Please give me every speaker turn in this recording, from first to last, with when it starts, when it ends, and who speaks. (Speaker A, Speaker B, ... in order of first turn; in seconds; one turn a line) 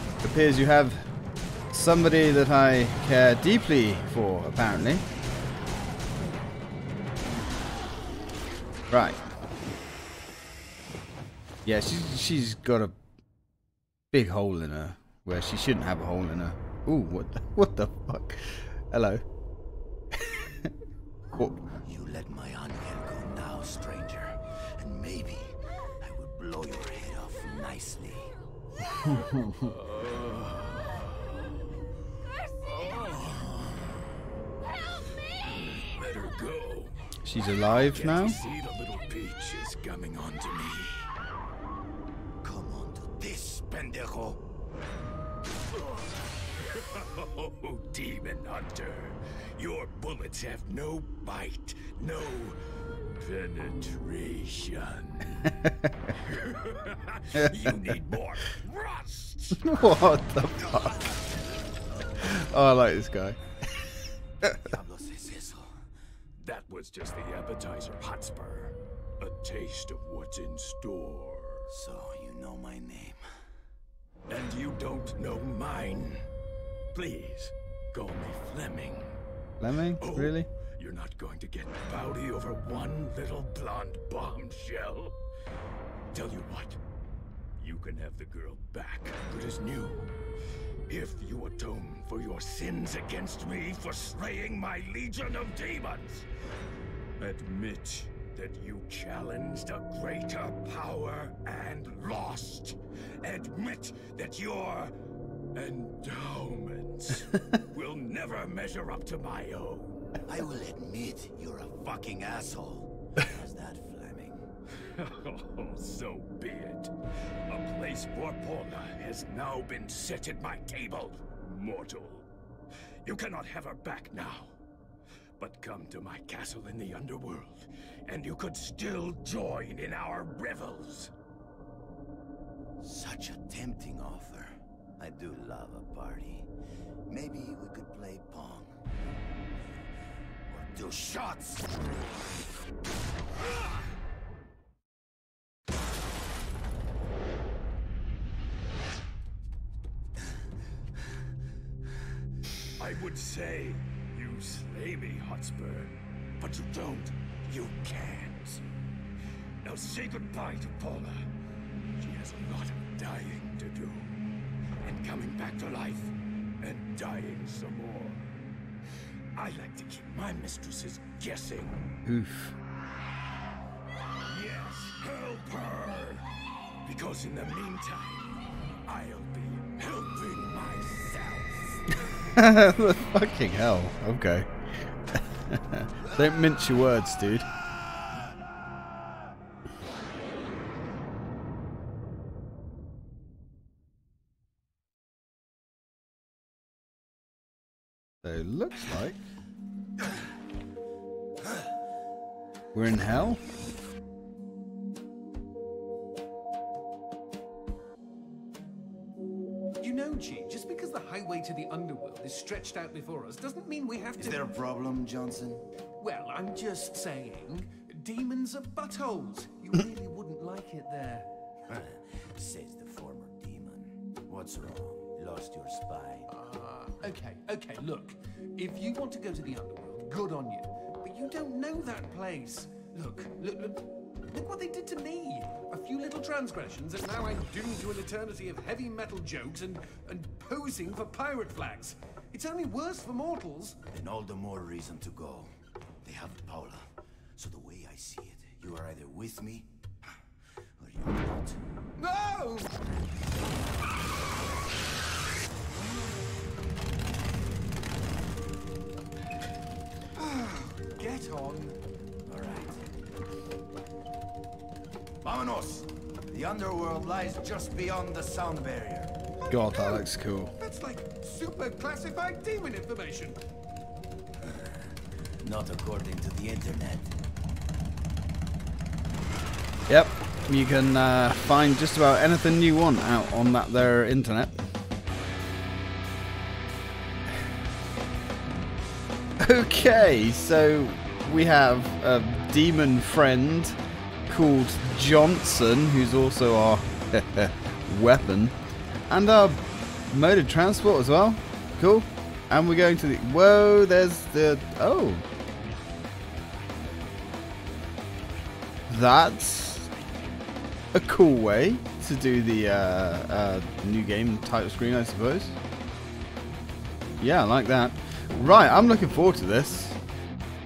Speaker A: 0.2-1.1
Speaker A: 1.7-5.1
Speaker A: 8.9-9.2
Speaker A: 11.7-13.0
Speaker A: 14.1-19.2
Speaker A: 20.1-20.7
Speaker A: 21.4-21.6
Speaker B: 21.8-28.3
Speaker A: 28.9-29.7
Speaker C: 29.6-31.0
Speaker C: 32.6-33.6
Speaker C: 35.4-37.0
Speaker A: 37.2-38.4
Speaker C: 37.7-41.0
Speaker B: 42.4-44.4
Speaker C: 46.6-52.6
Speaker C: 53.2-55.6
Speaker A: 55.6-55.9
Speaker C: 56.2-59.7
Speaker A: 57.3-58.0
Speaker A: 59.6-61.1
Speaker A: 62.2-63.4
Speaker A: 64.4-64.8
Speaker B: 64.5-65.7
Speaker C: 66.4-71.7
Speaker B: 71.7-73.2
Speaker C: 74.3-76.2
Speaker C: 76.9-79.2
Speaker A: 79.6-80.5
Speaker C: 80.0-85.2
Speaker C: 86.1-86.8
Speaker C: 87.6-90.1
Speaker C: 90.9-96.3
Speaker C: 97.2-104.9
Speaker C: 105.5-110.0
Speaker B: 110.3-114.5
Speaker C: 114.9-116.9
Speaker C: 117.5-122.3
Speaker C: 123.0-124.6
Speaker C: 125.4-131.1
Speaker B: 132.8-136.5
Speaker B: 137.1-138.8
Speaker B: 140.5-142.1
Speaker C: 152.8-158.7
Speaker C: 159.6-161.2
Speaker C: 162.0-164.1
Speaker C: 164.8-168.3
Speaker C: 169.4-171.8
Speaker A: 172.1-172.6
Speaker C: 174.3-176.3
Speaker C: 176.8-178.3
Speaker C: 178.9-182.0
Speaker A: 182.3-184.5
Speaker A: 185.1-187.5
Speaker A: 198.2-199.2
Speaker A: 202.7-203.4
Speaker D: 209.8-214.5
Speaker B: 214.2-215.6
Speaker D: 216.0-221.3
Speaker B: 221.7-226.3
Speaker D: 226.3-243.8
Speaker B: 243.9-245.5
Speaker B: 246.0-249.7
Speaker B: 250.8-251.6
Speaker D: 252.0-252.8
Speaker D: 260.2-261.8
Speaker B: 262.3-262.8
Speaker B: 265.2-269.2
Speaker D: 269.4-273.4
Speaker A: 269.5-270.5
Speaker B: 275.4-277.1
Speaker A: 279.9-284.7
Speaker A: 289.4-298.6
Speaker A: 299.1-305.3
Speaker A: 308.9-309.9
Speaker A: 310.9-315.6
Speaker A: 317.2-320.0